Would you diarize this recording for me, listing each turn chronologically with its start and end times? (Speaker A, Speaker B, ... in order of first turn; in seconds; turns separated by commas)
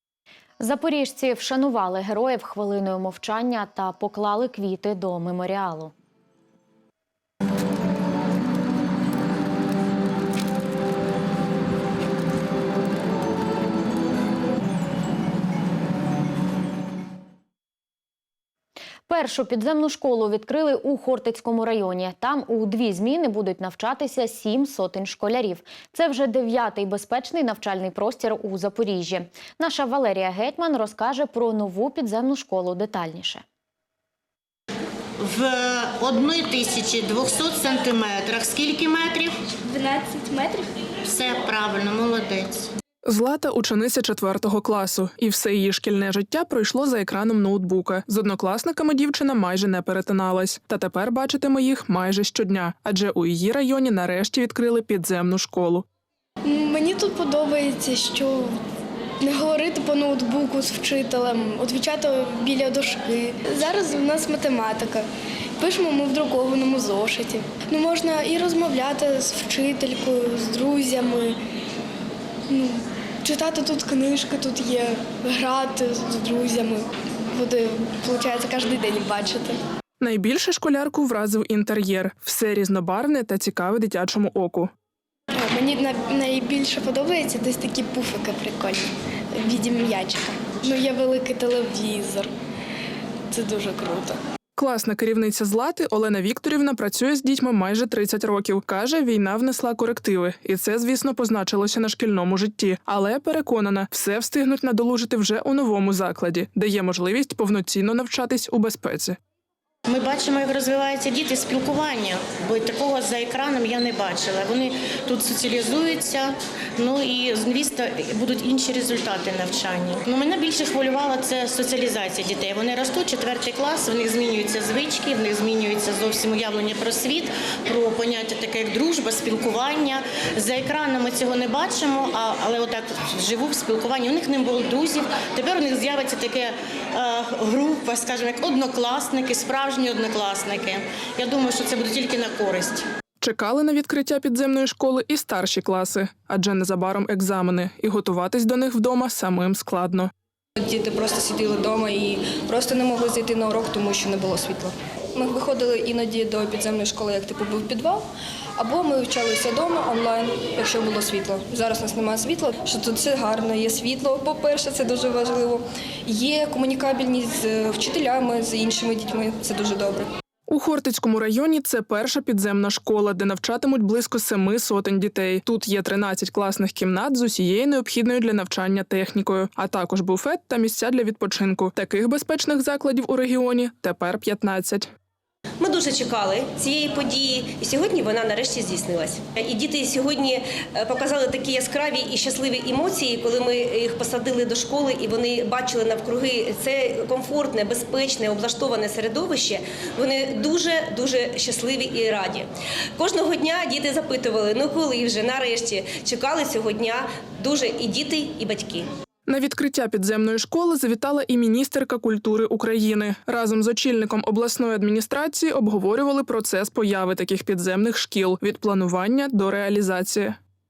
Speaker A: 0.6-5.9, Speaker A: 19.1-33.4, Speaker B: 35.2-39.4, Speaker C: 39.7-40.7, Speaker B: 41.0-42.7, Speaker D: 43.1-55.9, Speaker C: 56.5-58.6, Speaker C: 59.2-65.1, Speaker C: 65.6-71.4, Speaker C: 72.5-79.6, Speaker D: 80.0-84.7, Speaker C: 85.3-92.3, Speaker C: 93.3-94.2, Speaker D: 94.6-109.2, Speaker B: 109.9-142.8, Speaker D: 143.2-150.1, Speaker E: 150.6-158.1, Speaker E: 158.6-170.1, Speaker D: 170.5-184.9, Speaker F: 185.6-208.9, Speaker D: 209.3-220.4